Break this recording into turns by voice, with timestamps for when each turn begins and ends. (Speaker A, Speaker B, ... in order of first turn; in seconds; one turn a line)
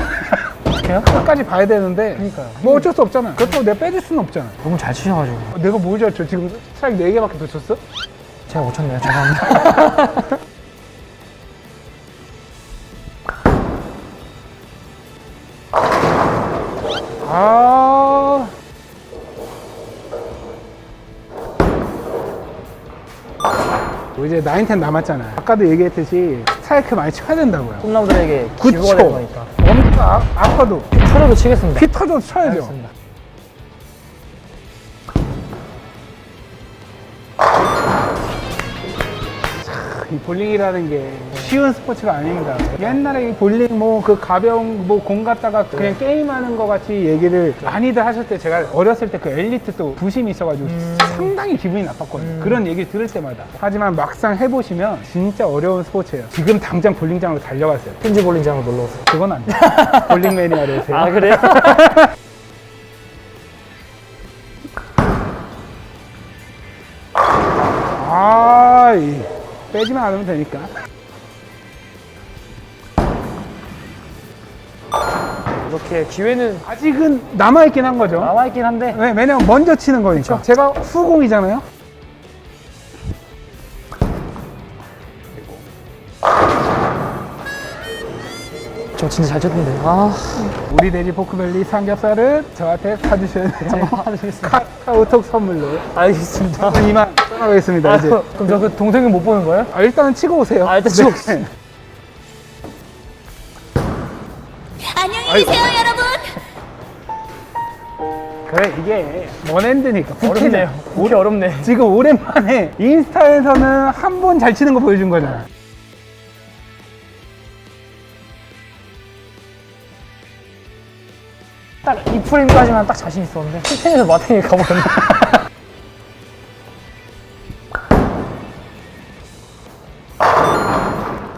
Speaker A: 0.7-4.6
Speaker B: 2.1-3.6
Speaker B: 4.6-5.5
Speaker A: 5.5-7.8
Speaker B: 8.5-10.4
Speaker A: 17.2-18.5
Speaker A: 24.1-27.9
Speaker B: 27.8-29.5
Speaker A: 28.6-30.9
Speaker B: 30.9-31.9
Speaker A: 31.7-32.8
Speaker B: 32.4-32.9
Speaker A: 39.6-58.0
Speaker B: 45.7-46.0
Speaker B: 50.6-51.3
Speaker B: 52.2-52.6
Speaker B: 58.0-62.0
Speaker A: 59.1-62.0
Speaker A: 68.0-70.7
Speaker B: 75.6-76.7
Speaker A: 76.6-78.3
Speaker B: 78.2-79.0
Speaker A: 78.9-81.6
Speaker B: 80.1-80.4
Speaker B: 88.9-90.5
Speaker A: 90.5-95.9
Speaker B: 93.6-94.6
Speaker B: 95.8-96.9
Speaker A: 96.5-98.6
Speaker B: 97.8-99.7
Speaker A: 99.7-101.5
Speaker B: 100.6-101.5
Speaker A: 105.0-106.3
Speaker A: 108.5-115.5
Speaker B: 110.2-111.7
Speaker B: 121.8-125.4